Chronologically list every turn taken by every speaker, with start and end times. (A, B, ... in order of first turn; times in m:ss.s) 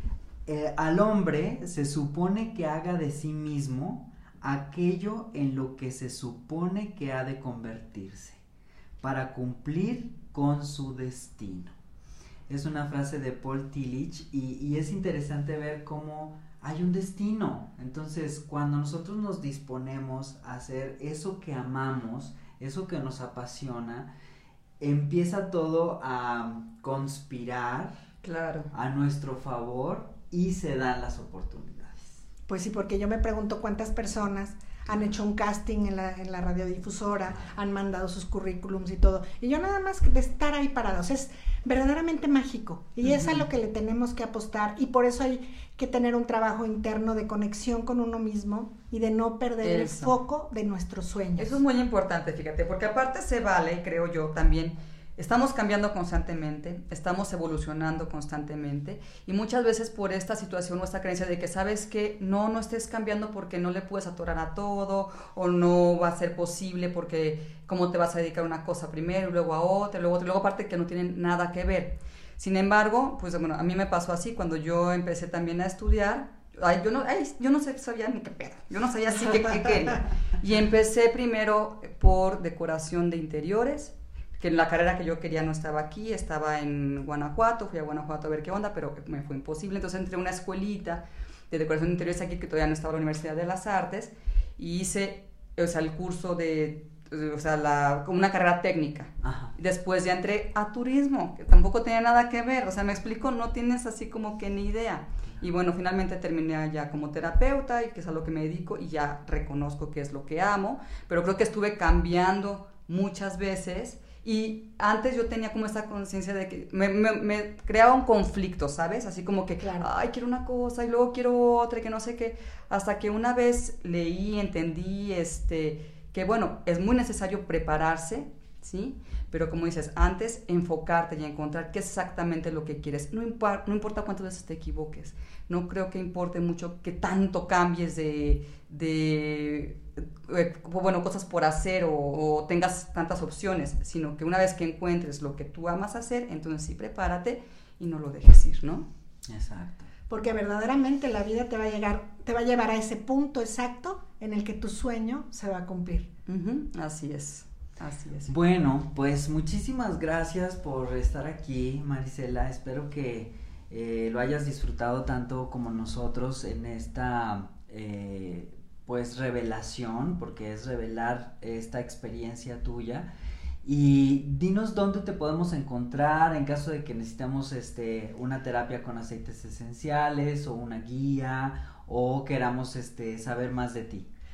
0:00.5-0:08.4 A
0:09.0-0:11.7 A
0:12.5-0:24.1 A
0:24.8-0:27.9 A
0:28.2-0:28.7 B
0:28.7-0:32.1 A
0:32.5-0:51.6 C
0:43.0-0:43.4 B
0:49.6-0:50.1 B
0:51.4-2:28.9 B
1:39.2-1:39.5 A
1:59.6-1:59.9 C
2:29.3-2:29.9 A
2:30.1-2:36.1 C
2:36.3-2:38.4 B
2:38.3-2:53.1 A
2:53.6-3:04.1 A